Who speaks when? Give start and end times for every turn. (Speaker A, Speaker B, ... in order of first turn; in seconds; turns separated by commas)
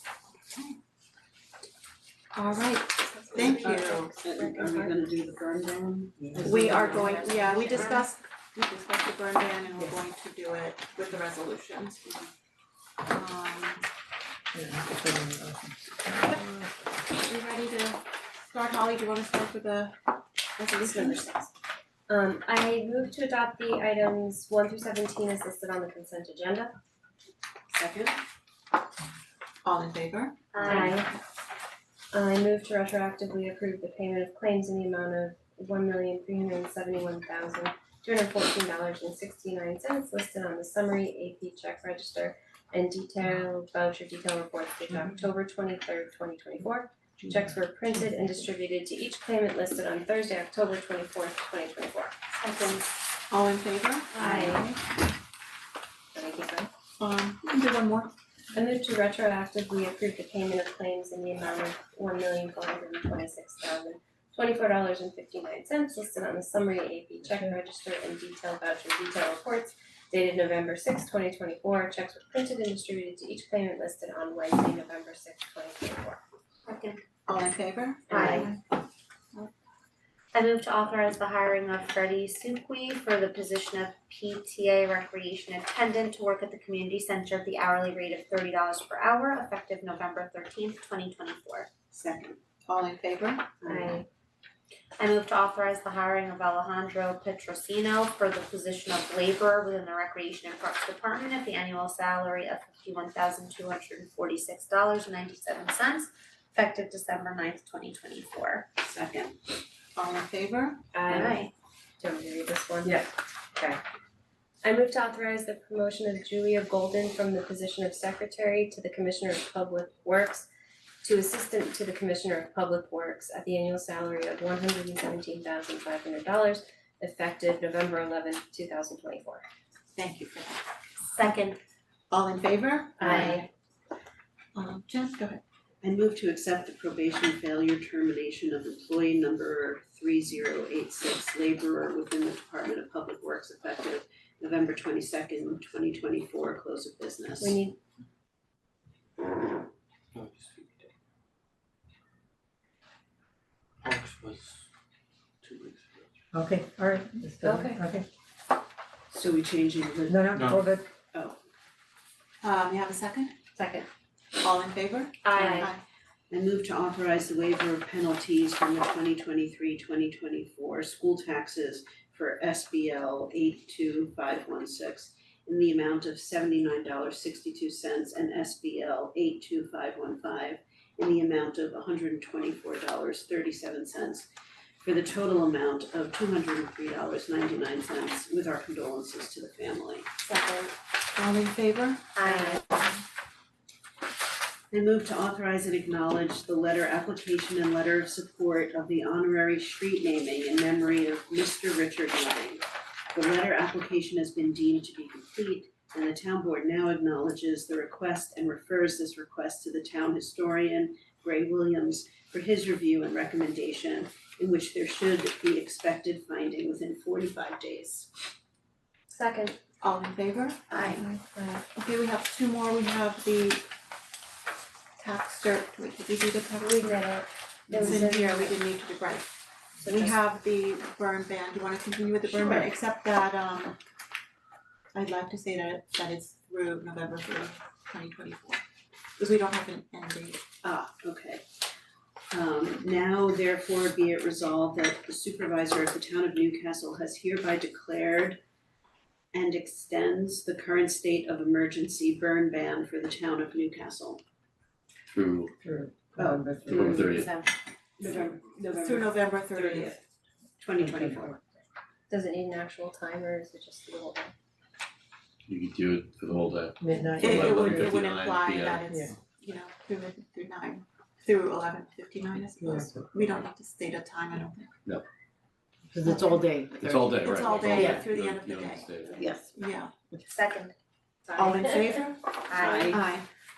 Speaker A: 0.5-0.8, Speaker A: 2.3-4.1, Speaker B: 3.1-5.0, Speaker C: 3.5-7.6, Speaker D: 6.2-7.2, Speaker B: 6.3-8.0, Speaker A: 6.4-12.3, Speaker A: 13.1-13.8, Speaker D: 14.5-16.9, Speaker A: 17.1-20.0, Speaker A: 20.6-21.4, Speaker B: 20.8-21.5, Speaker B: 22.1-26.7, Speaker C: 27.7-28.2, Speaker A: 29.6-30.7, Speaker E: 30.5-31.1, Speaker B: 30.6-31.1, Speaker B: 32.1-52.1, Speaker E: 52.3-53.0, Speaker A: 53.3-54.8, Speaker E: 54.1-54.4, Speaker B: 54.2-54.6, Speaker B: 56.1-56.7, Speaker A: 57.0-58.1, Speaker B: 58.5-76.2, Speaker D: 67.2-67.5, Speaker E: 76.6-77.0, Speaker A: 77.3-78.6, Speaker E: 78.1-78.5, Speaker E: 80.3-91.7, Speaker C: 91.9-92.4, Speaker A: 92.7-93.5, Speaker C: 93.6-94.0, Speaker B: 93.6-94.0, Speaker E: 95.0-108.7, Speaker C: 108.8-109.4, Speaker A: 109.9-110.9, Speaker B: 110.9-111.4, Speaker E: 111.0-111.5, Speaker B: 112.0-113.0, Speaker B: 114.6-120.5, Speaker B: 121.0-129.4, Speaker A: 129.9-130.6, Speaker E: 131.1-131.6, Speaker A: 132.1-133.4, Speaker B: 133.0-133.5, Speaker A: 134.5-135.4, Speaker C: 135.8-147.6, Speaker B: 147.4-147.8, Speaker F: 150.2-150.5, Speaker F: 154.0-154.5, Speaker F: 155.4-156.0, Speaker D: 156.3-158.1, Speaker B: 157.4-157.8, Speaker C: 159.1-160.3, Speaker D: 160.1-160.9, Speaker A: 162.4-163.3, Speaker B: 163.5-163.9, Speaker A: 164.4-165.8, Speaker B: 165.2-165.7, Speaker C: 165.4-165.7, Speaker C: 166.3-184.3, Speaker C: 184.8-190.1, Speaker E: 190.2-190.7, Speaker A: 191.1-192.1, Speaker E: 192.2-192.9, Speaker C: 194.7-218.1, Speaker B: 219.1-219.6, Speaker A: 219.8-221.1, Speaker E: 220.7-221.1, Speaker B: 221.0-221.6, Speaker A: 221.7-223.6, Speaker A: 225.0-226.9, Speaker B: 226.6-228.6, Speaker A: 227.7-229.3, Speaker A: 229.8-233.8, Speaker C: 232.4-232.7, Speaker A: 234.9-238.6, Speaker A: 239.2-240.4, Speaker C: 240.6-241.4, Speaker C: 242.3-248.4, Speaker C: 249.3-254.2, Speaker F: 255.1-255.5, Speaker D: 255.6-257.3, Speaker C: 256.2-256.5, Speaker F: 256.6-257.3, Speaker C: 257.1-257.5, Speaker C: 258.0-260.0, Speaker A: 258.8-260.0, Speaker C: 260.6-261.4, Speaker D: 260.8-261.3, Speaker B: 262.1-264.3, Speaker F: 265.5-268.9, Speaker D: 266.8-268.0, Speaker A: 267.2-274.7, Speaker D: 272.6-273.1, Speaker D: 275.9-278.1, Speaker A: 276.0-279.9, Speaker F: 276.7-279.3, Speaker D: 279.2-279.5, Speaker E: 280.3-280.7, Speaker E: 281.3-283.0, Speaker A: 281.3-283.2, Speaker C: 282.5-283.0